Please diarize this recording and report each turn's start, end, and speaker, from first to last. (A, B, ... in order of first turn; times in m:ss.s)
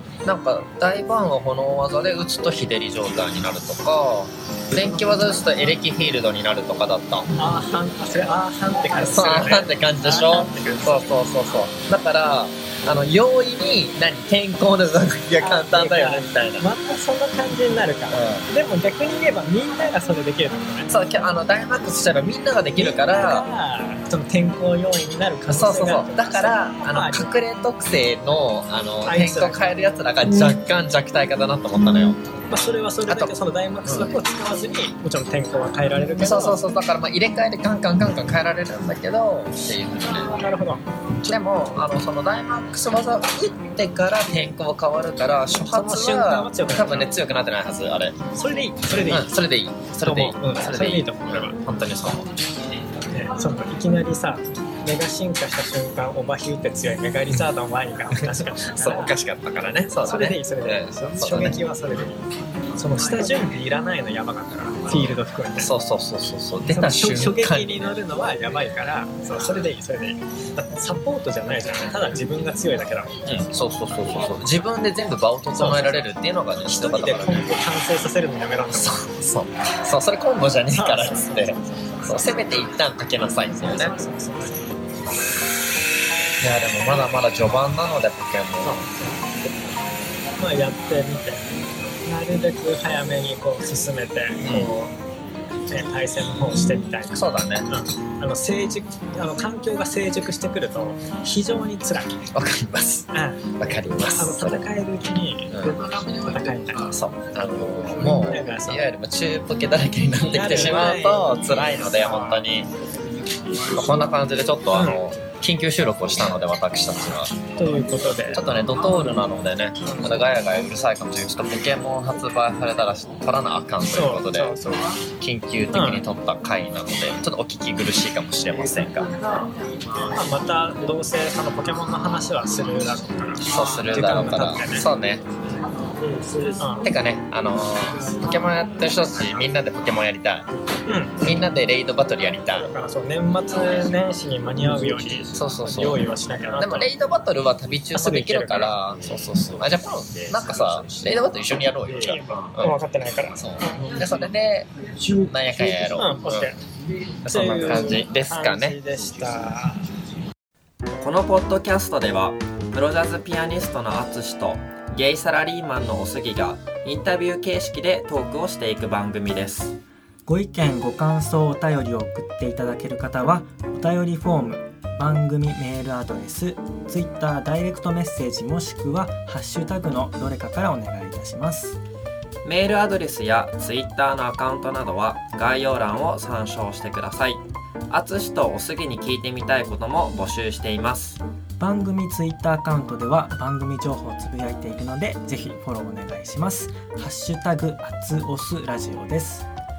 0:00.2-0:07.3 A
0:07.4-0:11.2 B
0:09.0-0:16.7 A
0:15.4-0:20.9 B
0:18.1-0:18.5 A
0:20.9-0:23.5 A
0:22.8-0:27.3 B
0:25.5-0:32.2 A
0:29.0-0:29.7 B
0:32.5-0:36.6 B
0:33.1-0:33.3 A
0:33.8-0:34.1 A
0:36.2-0:40.4 A
0:40.4-0:41.3 B
0:41.3-0:48.2 A
0:45.7-0:47.1 B
0:48.3-0:49.3 B
0:49.0-0:52.3 A
0:50.0-0:51.6 B
0:53.1-0:59.2 B
0:58.1-1:01.6 A
0:59.9-1:02.2 B
1:02.8-1:05.7 B
1:04.9-1:07.8 A
1:06.7-1:13.1 B
1:13.2-1:17.5 A
1:15.5-1:16.0 B
1:16.6-1:19.0 B
1:18.7-1:23.9 A
1:20.7-1:22.7 B
1:23.5-1:24.8 B
1:26.4-1:28.9 A
1:28.6-1:29.3 B
1:30.4-1:31.5 B
1:32.0-1:34.9 B
1:34.4-1:34.7 A
1:35.7-1:42.2 B
1:37.1-1:37.7 A
1:42.3-1:43.1 A
1:43.1-1:43.5 B
1:43.6-1:44.6 A
1:44.1-1:46.9 B
1:45.5-1:45.8 A
1:46.9-1:52.7 A
1:48.0-1:48.9 B
1:50.3-1:52.4 B
1:53.7-1:57.3 A
1:54.7-1:55.0 B
1:57.6-1:58.4 B
1:58.3-2:04.5 A
1:59.8-2:00.2 B
2:03.9-2:05.0 B
2:05.2-2:09.1 A
2:05.7-2:06.0 B
2:10.1-2:14.9 B
2:13.4-2:15.2 A
2:16.6-2:16.9 B
2:16.8-2:20.5 A
2:20.9-2:21.2 B
2:21.2-2:22.7 A
2:22.5-2:26.9 B
2:25.3-2:26.0 A
2:26.6-2:32.8 A
2:27.9-2:28.7 B
2:32.0-2:34.0 B
2:33.3-2:34.7 A
2:35.3-2:36.5 A
2:36.0-2:36.6 B
2:37.2-2:38.8 A
2:37.2-2:39.9 B
2:41.0-2:49.7 C
2:50.3-3:01.8 D
3:02.4-3:11.2 C
3:11.6-3:19.5 D